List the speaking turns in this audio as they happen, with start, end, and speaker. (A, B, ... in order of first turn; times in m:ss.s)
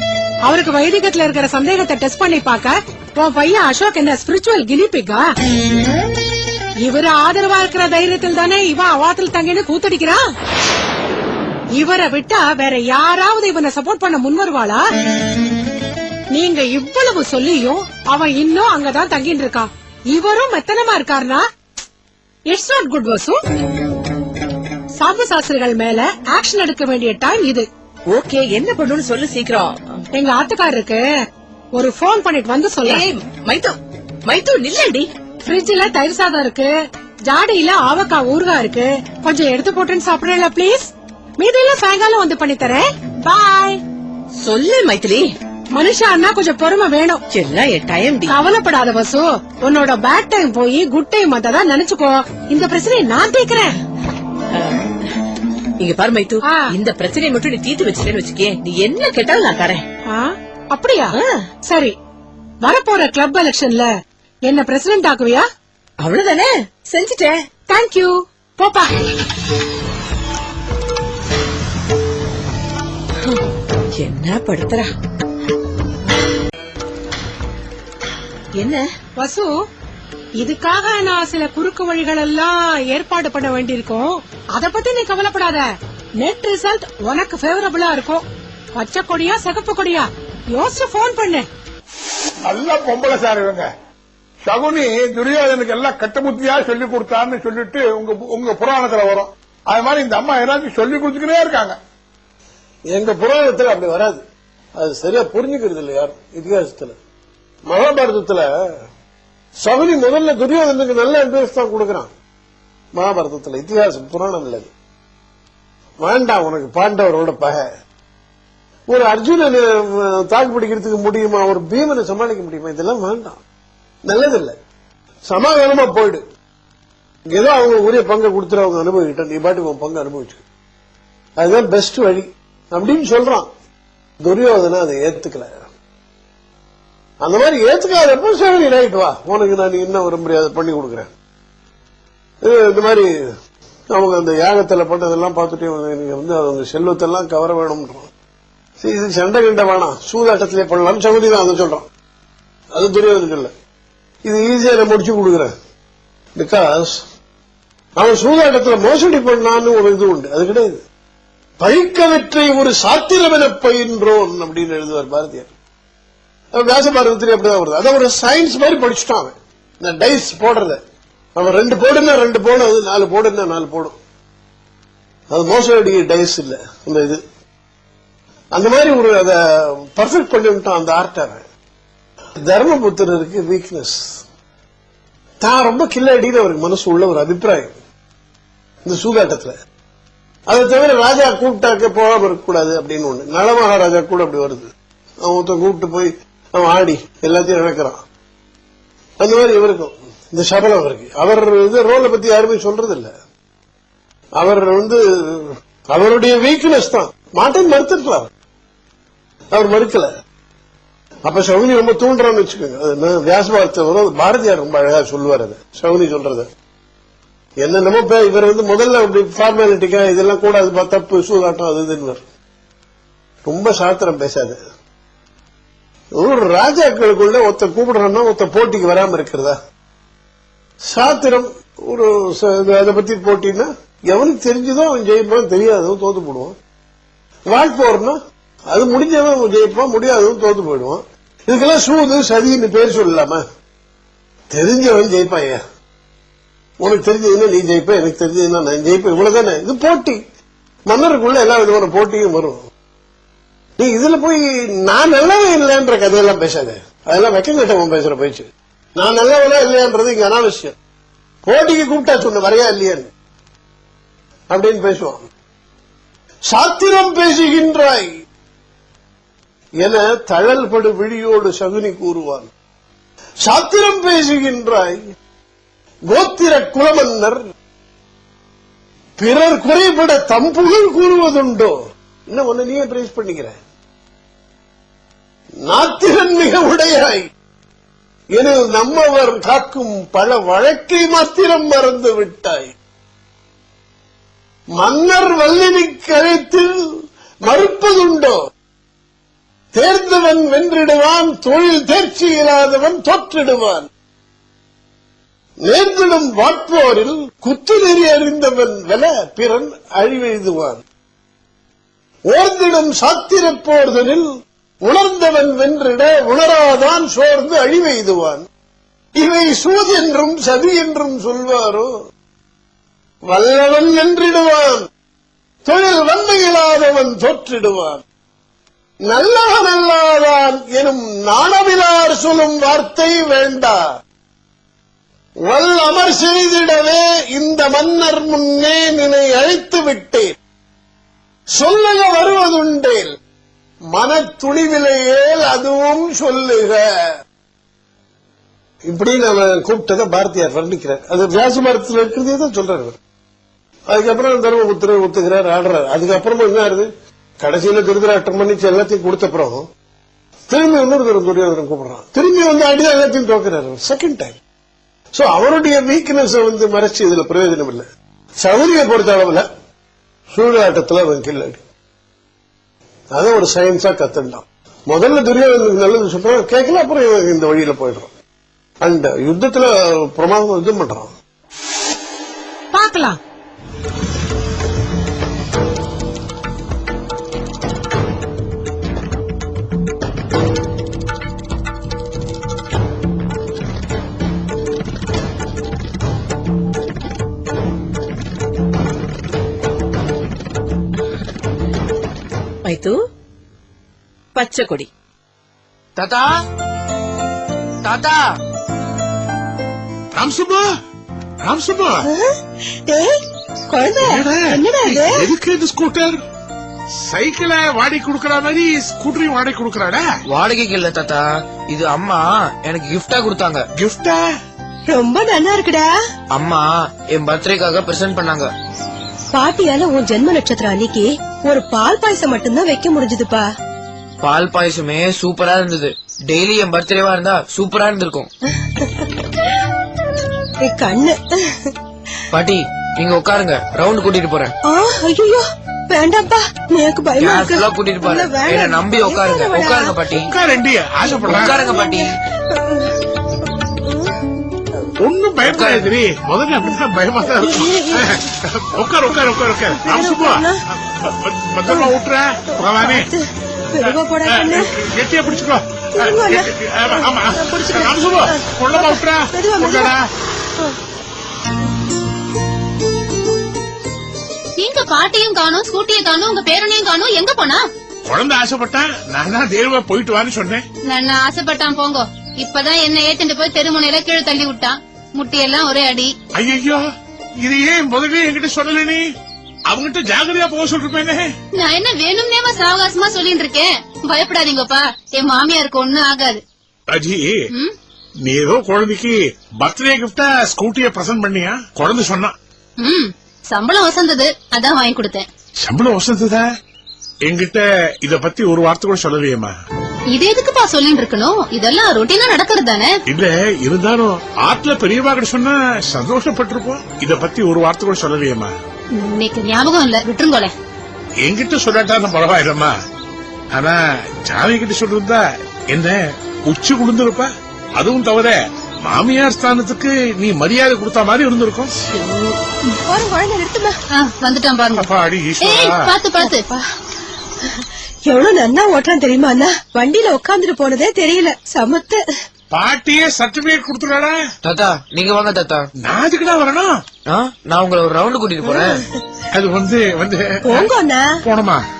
0:00.4-0:05.2 A
0:06.8-0:10.2 A
0:11.8-0:14.8 A
0:16.3-0:21.4 A
0:22.5-0:23.4 A
0:25.0-0:27.7 A
0:28.1-0:30.0 B
0:30.1-0:31.0 A
0:31.8-0:33.0 A
0:32.8-0:33.7 B
0:34.2-0:35.1 B
0:35.5-0:36.7 A
0:37.3-0:43.8 A
0:44.4-0:45.2 B
0:45.7-0:47.2 A
0:47.3-0:48.3 B
0:48.3-0:53.7 A
0:55.8-0:59.8 B
1:00.1-1:01.1 A
1:01.7-1:01.9 A
1:02.6-1:03.9 A
1:04.5-1:05.4 A
1:06.0-1:07.3 B
1:07.7-1:09.1 A
1:14.0-1:14.9 B
1:19.2-1:19.5 A
1:20.4-1:25.6 A
1:26.2-1:31.5 A
1:32.5-1:33.7 C
1:34.4-1:41.8 C
1:42.9-1:44.2 D
1:44.8-1:47.0 D
1:47.7-1:48.5 D
1:49.6-1:52.1 D
1:52.9-1:54.7 D
1:56.0-1:57.7 D
1:58.9-2:03.4 D
2:04.1-2:04.5 D
2:05.3-2:06.2 D
2:07.3-2:10.4 D
2:11.4-2:13.5 D
2:14.2-2:15.6 D
2:17.2-2:21.1 D
2:22.4-2:23.1 D
2:23.9-2:28.1 D
2:28.8-2:31.9 D
2:32.7-2:33.5 D
2:34.2-2:35.5 D
2:36.3-2:37.0 D
2:38.0-2:40.8 D
2:41.6-2:45.5 D
2:46.5-2:50.8 D
2:51.4-2:54.0 D
2:55.3-2:57.2 D
2:58.5-3:01.4 D
3:02.4-3:04.2 D
3:05.4-3:07.7 D
3:08.8-3:09.5 D
3:10.5-3:14.7 D
3:15.2-3:18.0 D
3:19.2-3:23.1 D
3:24.4-3:28.3 D
3:29.5-3:30.1 D
3:31.2-3:36.5 D
3:37.6-3:42.2 D
3:43.4-3:44.6 D
3:46.2-3:49.6 D
3:50.8-3:56.6 D
3:57.5-3:58.2 D
3:58.7-4:03.4 D
4:04.5-4:05.6 D
4:06.8-4:10.2 D
4:10.9-4:12.6 D
4:13.8-4:18.5 D
4:19.0-4:20.8 D
4:21.4-4:23.1 D
4:24.5-4:25.3 D
4:26.5-4:28.1 D
4:29.8-4:32.5 D
4:33.4-4:35.0 D
4:36.1-4:37.4 D
4:39.2-4:41.8 D
4:42.3-4:43.6 D
4:45.6-4:47.3 D
4:48.3-4:52.7 D
4:54.8-4:56.8 D
4:57.4-4:58.5 D
4:59.7-5:03.9 D
5:05.6-5:10.8 D
5:12.3-5:14.3 D
5:14.8-5:18.4 D
5:19.2-5:21.9 D
5:23.3-5:24.9 D
5:25.6-5:28.0 D
5:29.1-5:33.8 D
5:35.4-5:40.4 D
5:41.5-5:43.1 D
5:43.9-5:46.8 D
5:48.9-5:53.0 D
5:53.9-5:56.9 D
5:57.4-5:59.7 D
6:00.5-6:04.4 D
6:05.1-6:07.8 D
6:08.4-6:09.4 D
6:10.3-6:11.6 D
6:13.1-6:18.1 D
6:18.8-6:21.1 D
6:22.7-6:23.2 A
6:42.6-6:42.9 B
6:44.4-6:44.9 B
6:46.0-6:46.3 E
6:47.8-6:48.2 E
6:50.1-6:50.6 C
6:51.4-6:52.1 C
6:52.9-6:53.2 F
6:53.7-6:55.3 F
6:54.0-6:56.2 C
6:57.0-7:00.1 C
7:00.3-7:03.6 E
7:03.8-7:04.2 C
7:04.9-7:05.9 F
7:06.3-7:08.5 E
7:09.3-7:13.4 F
7:14.2-7:18.3 E
7:20.6-7:21.6 F
7:22.3-7:24.5 E
7:24.6-7:30.0 F
7:27.2-7:30.3 E
7:30.2-7:31.6 C
7:31.0-7:32.1 F
7:31.2-7:32.1 E
7:35.0-7:40.5 C
7:37.3-7:38.2 F
7:39.7-7:40.6 F
7:41.0-7:43.1 C
7:41.7-7:41.9 F
7:42.6-7:44.7 F
7:43.8-7:50.0 C
7:46.0-7:49.9 F
7:54.6-7:57.6 G
7:58.1-8:00.6 C
8:00.9-8:06.1 G
8:06.4-8:06.8 C
8:07.4-8:09.0 C
8:09.7-8:11.3 C
8:11.6-8:16.4 G
8:16.9-8:17.4 C
8:18.2-8:22.3 C
8:22.8-8:25.3 G
8:25.6-8:26.4 C
8:27.2-8:29.5 C
8:30.1-8:32.9 G
8:33.1-8:38.5 C
8:39.0-8:40.5 G
8:41.2-8:42.7 C
8:43.5-8:51.7 C
8:51.9-8:52.3 G
8:52.9-8:53.8 F
8:54.0-8:54.9 G
8:54.8-8:55.9 C
8:55.4-8:56.4 G
8:56.2-8:56.6 F
8:58.1-9:02.0 F
9:02.5-9:04.2 C
9:04.4-9:05.7 E
9:05.8-9:06.7 C
9:07.1-9:08.8 E
9:08.4-9:08.8 F
9:09.3-9:10.7 C
9:10.4-9:11.1 F
9:11.2-9:11.6 C